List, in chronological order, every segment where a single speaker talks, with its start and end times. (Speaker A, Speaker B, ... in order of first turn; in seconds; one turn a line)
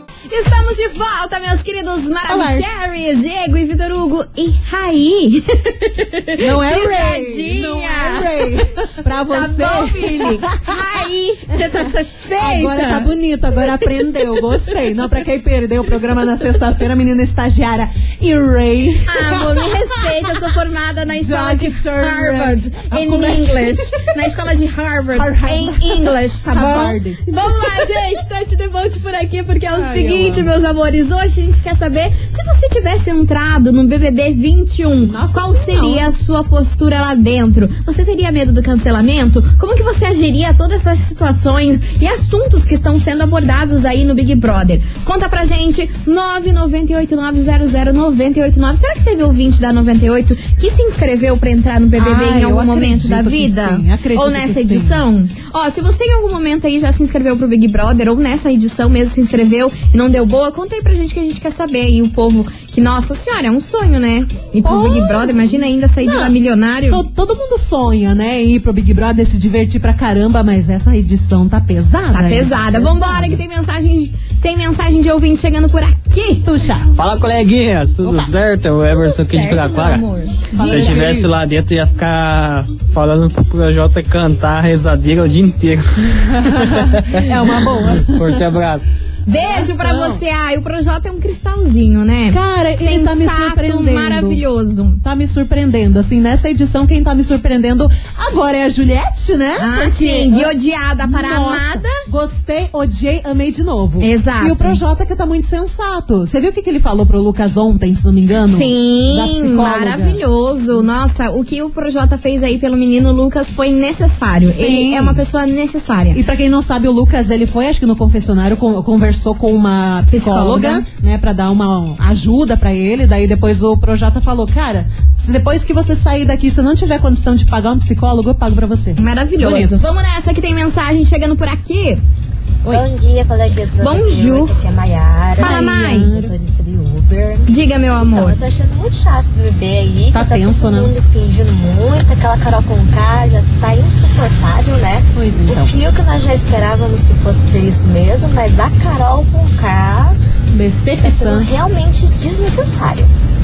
Speaker A: 0.3-8.6
Speaker B: 2.2-2.8
Speaker B: 6.4-10.8
Speaker A: 9.3-14.7
Speaker B: 11.5-11.9
Speaker B: 12.4-20.4
Speaker A: 19.1-67.0
Speaker B: 21.1-24.2
Speaker B: 25.1-27.9
Speaker B: 29.7-30.5
Speaker B: 35.0-36.1
Speaker B: 52.0-55.0
Speaker B: 64.6-66.3
Speaker B: 66.9-73.4
Speaker A: 72.1-76.4
Speaker B: 76.4-76.9
Speaker C: 76.9-87.2
Speaker B: 78.0-78.3
Speaker A: 78.9-81.0
Speaker B: 80.5-81.3
Speaker B: 86.2-88.4
Speaker C: 87.8-88.8
Speaker B: 89.3-90.2
Speaker A: 89.3-95.0
Speaker B: 92.3-94.4
Speaker B: 95.0-110.2
Speaker A: 99.6-102.0
Speaker A: 104.0-104.8
Speaker A: 108.5-116.2
Speaker B: 114.5-115.2
Speaker B: 116.1-129.8
Speaker A: 120.1-120.8
Speaker A: 129.0-132.0
Speaker D: 132.7-150.2
Speaker A: 133.8-134.5
Speaker A: 135.3-136.1
Speaker B: 135.4-136.3
Speaker A: 137.5-138.4
Speaker B: 140.1-140.9
Speaker B: 145.1-145.7
Speaker B: 150.5-151.5
Speaker D: 151.0-153.1